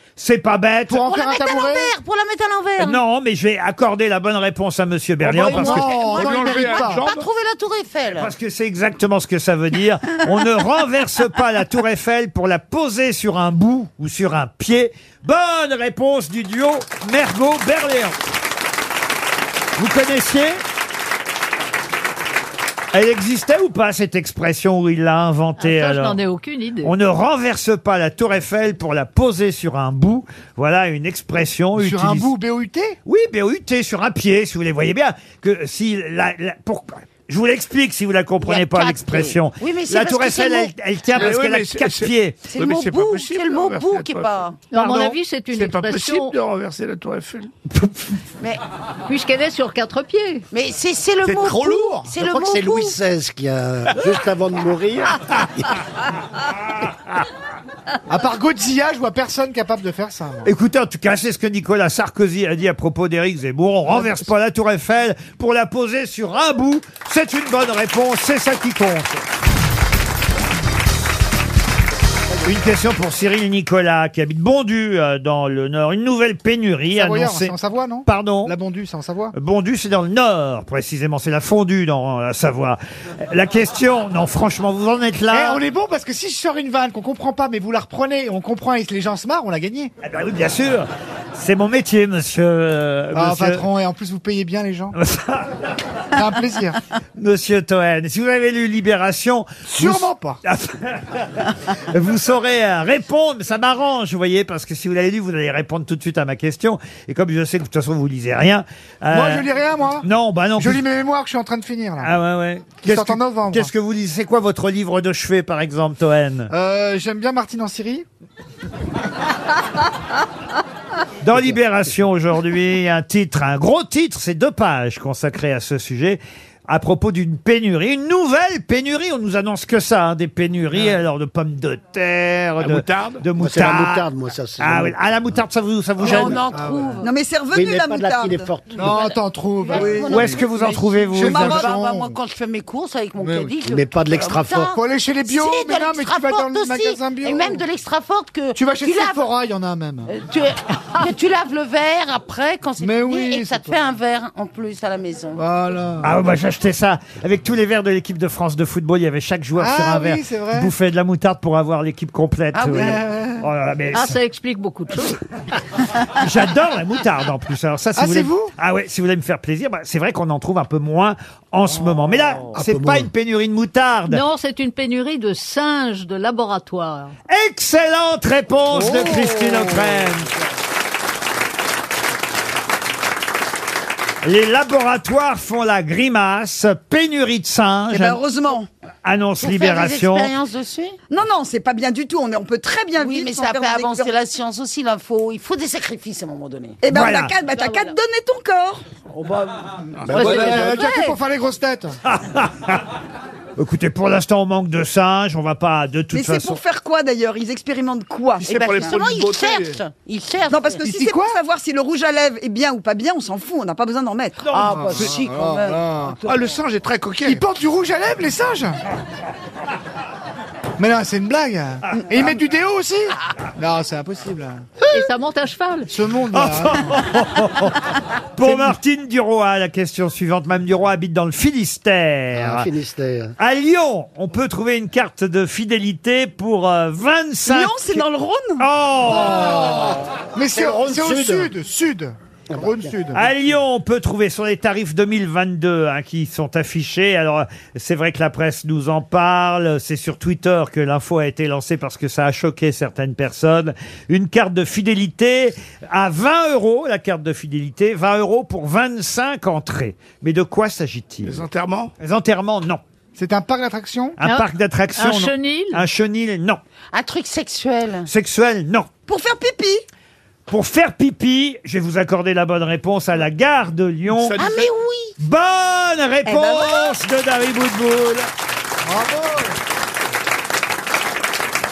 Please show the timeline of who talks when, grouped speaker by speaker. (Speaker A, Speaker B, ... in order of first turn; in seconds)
Speaker A: 0.2-1.0, 2.8-5.9, 8.2-18.2, 19.8-20.6, 22.9-26.2, 26.8-32.3, 33.1-42.4, 60.5-69.2, 72.4-77.5, 78.1-78.6, 79.3-85.6, 90.0-93.7, 95.0-95.7, 97.2-109.5, 110.0-110.8, 112.0-116.5, 121.2-134.1, 134.6-136.4, 140.1-141.7, 156.0-164.2, 166.1-174.2, 177.3-180.3, 184.2-188.2, 189.0-190.3, 196.9-197.3, 202.1-202.8, 203.6-206.6, 214.4-214.8, 226.3-227.8, 228.4-232.7, 233.4-238.0, 238.6-239.8, 243.1-261.4, 262.0-262.8, 264.2-266.6, 268.1-268.9, 270.5-274.4, 275.2-278.3
Speaker B: 0.9-1.9, 5.3-7.0, 31.8-33.0, 58.1-60.5, 76.9-79.3, 85.3-89.9, 93.1-95.0, 96.1-96.8, 99.6-100.4, 109.1-112.1, 112.8-113.7, 116.5-118.0, 136.3-137.0, 138.8-142.2, 143.2-143.5, 144.8-147.6, 148.6-150.1, 152.8-153.8, 155.4-156.2, 159.6-160.7, 162.7-163.5, 168.0-168.5, 200.1-202.0, 210.9-211.3, 214.6-216.2, 217.2-218.8, 220.8-224.6, 225.9-227.0, 228.4-228.8, 239.1-243.2, 263.2-264.2, 278.9-279.5
Speaker C: 1.0-3.0, 5.7-8.3, 38.4-40.7, 42.5-44.6, 50.5-53.0, 136.0-137.1, 138.8-149.2, 150.1-155.4, 162.5-163.1, 189.4-191.0, 193.0-196.8, 208.4-210.9, 214.5-216.5, 266.9-268.1, 274.4-275.2
Speaker D: 5.2-7.3, 41.1-44.3, 45.5-47.5, 51.2-52.0, 132.6-133.2, 200.0-200.7, 208.4-209.8, 216.2-217.4, 261.2-261.9, 274.1-274.7
Speaker E: 25.6-26.9, 44.7-46.4, 49.1-50.5, 163.9-165.2, 174.1-177.1, 197.5-197.9, 200.1-201.2, 224.9-225.9, 264.2-265.8
Speaker F: 52.2-55.6, 133.4-135.4, 137.5-139.0, 143.7-144.8, 172.5-173.1, 200.1-200.7, 232.3-233.3, 239.4-240.0, 240.5-241.5, 242.5-243.0
Speaker G: 137.0-138.5, 187.9-188.7, 191.1-194.1, 196.8-198.8, 206.1-209.0, 210.5-214.5, 237.5-238.7, 269.1-269.8